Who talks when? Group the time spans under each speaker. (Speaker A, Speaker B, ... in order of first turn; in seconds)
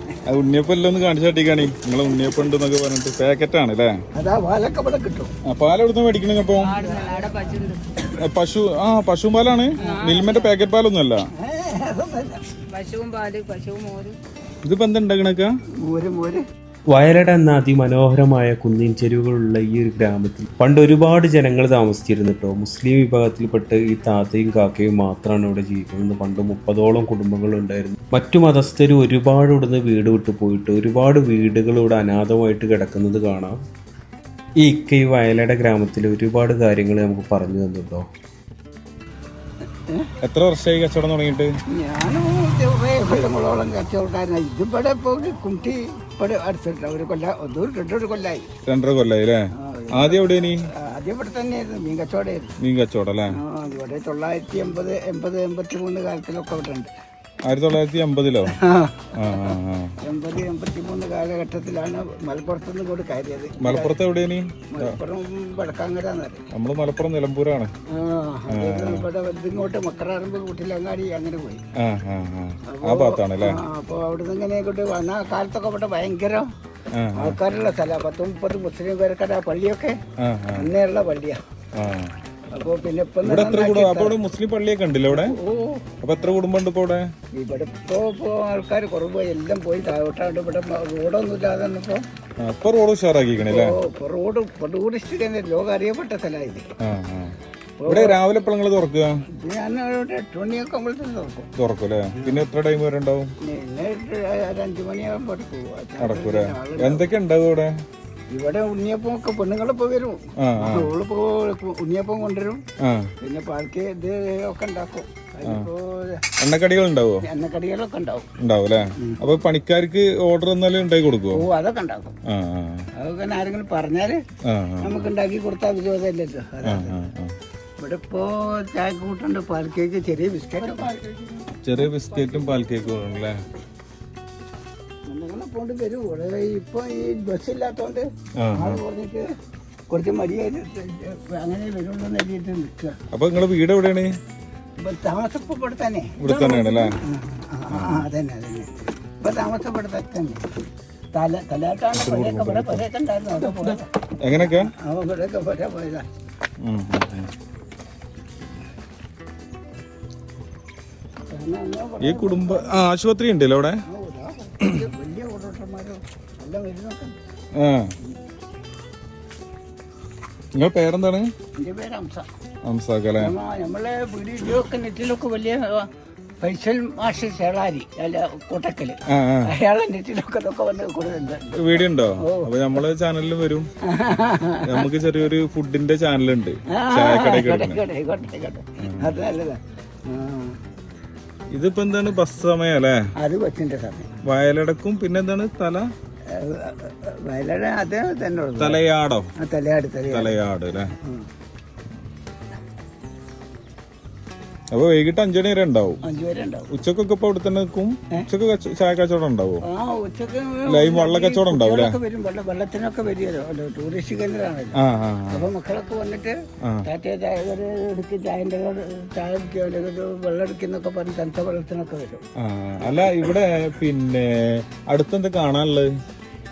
Speaker A: 0.3-4.0, 5.5-6.8, 8.1-11.2, 14.7-15.5, 40.2-41.5, 48.7-50.6, 52.6-53.4, 57.5-58.6, 59.2-59.9, 63.6-65.0, 66.5-67.7, 68.5-69.1, 71.8-73.6, 77.0-77.4, 80.2-80.7, 81.8-82.1, 83.2-85.3, 86.0-87.1, 92.4-93.8, 96.8-97.3, 97.9-99.1, 101.6-103.3, 106.0-107.7, 110.4-110.9, 112.8-113.1, 116.4-117.2, 118.4-121.4, 122.3-122.9, 124.5-125.1, 126.7-127.3, 131.6-133.3, 138.4-138.8, 143.1-144.1, 146.2-147.0, 147.7-148.1, 151.9-152.8, 154.2-154.7, 156.6-157.3, 162.0-163.8, 167.6-167.9, 170.6-171.3, 172.7-173.3, 179.1-179.5, 181.6-183.7, 184.7-187.8, 188.8-189.2, 191.5-193.0, 194.2-195.9, 198.6-199.3, 200.1-200.9, 204.7-206.0, 206.7-209.6, 210.7-212.0, 214.8-215.5, 222.4-225.9
Speaker B: 4.2-5.3, 6.8-7.3, 11.4-12.6, 15.8-16.4, 41.7-48.5, 49.5-52.5, 53.3-56.9, 58.5-64.0, 64.7-66.4, 67.9-71.6, 72.7-76.5, 77.2-80.0, 80.5-81.4, 82.5-84.2, 85.1-85.9, 87.3-92.0, 93.4-96.7, 97.8-98.2, 99.3-101.5, 102.2-102.4, 103.4-107.1, 108.3-112.6, 113.2-116.2, 117.2-118.3, 121.3-122.1, 123.0-124.2, 124.8-127.0, 127.8-132.7, 135.1-138.0, 138.6-139.2, 139.9-142.9, 144.8-150.4, 151.1-156.1, 161.3-162.8, 163.9-167.2, 171.6-172.3, 173.2-175.9, 176.4-182.5, 183.8-184.8, 186.7-190.6, 193.2-194.2, 196.3-198.8, 199.4-200.3, 201.0-201.3, 206.0-206.7, 209.7-214.8, 215.3-216.3, 216.8-222.2, 222.8-223.2
Speaker C: 6.6-7.8, 9.8-10.5, 12.7-14.2
Speaker D: 16.9-33.6, 34.6-38.1